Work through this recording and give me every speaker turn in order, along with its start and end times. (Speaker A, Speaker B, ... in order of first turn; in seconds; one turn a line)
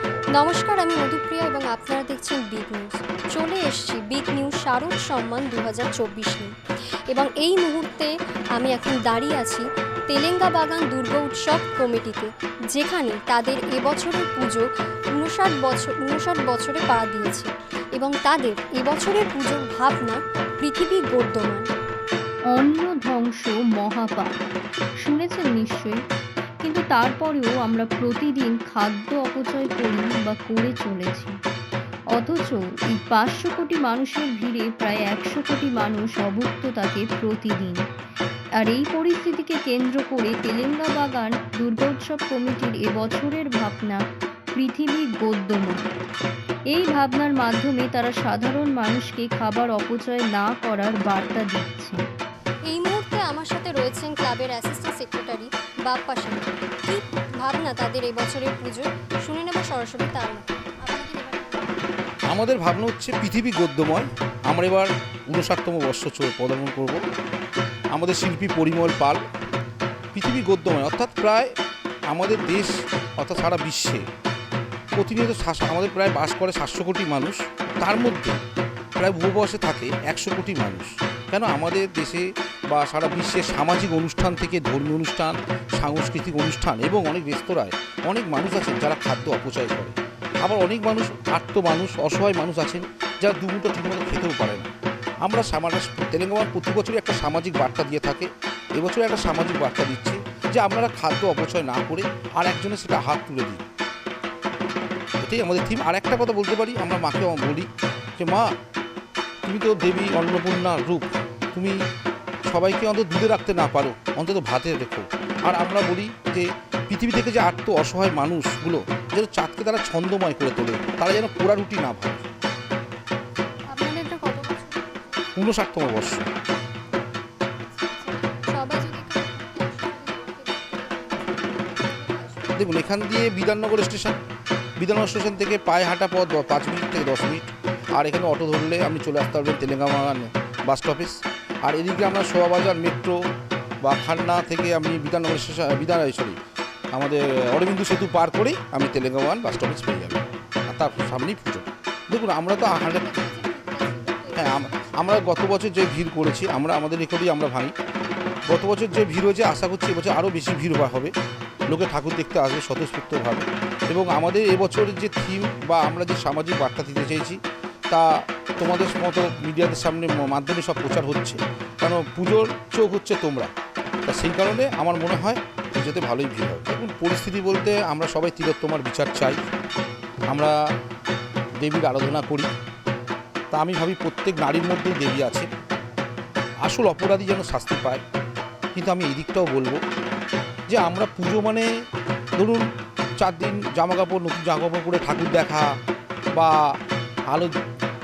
Speaker A: 0.3-6.5
Speaker A: 7.1-21.7
Speaker B: 22.5-24.4
Speaker B: 25.0-26.0
Speaker B: 26.6-31.3
Speaker B: 32.1-37.8
Speaker B: 38.6-44.0
Speaker B: 44.5-45.8
Speaker B: 46.7-52.0
Speaker A: 52.7-61.8
Speaker C: 62.3-67.0
Speaker C: 67.9-69.2
Speaker C: 70.1-71.5
Speaker C: 72.1-74.0
Speaker C: 74.9-78.4
Speaker C: 79.0-94.7
Speaker C: 95.2-103.6
Speaker C: 105.2-108.5
Speaker C: 109.4-111.8
Speaker C: 112.5-122.3
Speaker A: 123.7-125.2
Speaker C: 125.3-126.3
Speaker A: 127.7-132.7
Speaker C: 132.6-134.2
Speaker C: 134.8-143.2
Speaker C: 143.8-146.4
Speaker C: 146.9-153.2
Speaker A: 152.8-155.2
Speaker C: 154.3-157.7
Speaker C: 158.5-161.1
Speaker C: 161.7-173.5
Speaker C: 174.0-179.4
Speaker C: 180.3-180.6
Speaker C: 181.6-182.5
Speaker C: 183.5-185.5
Speaker C: 186.6-188.0
Speaker C: 188.7-189.8
Speaker C: 190.7-191.7
Speaker C: 192.3-192.7
Speaker C: 193.2-195.8
Speaker C: 196.3-196.8
Speaker C: 197.3-197.6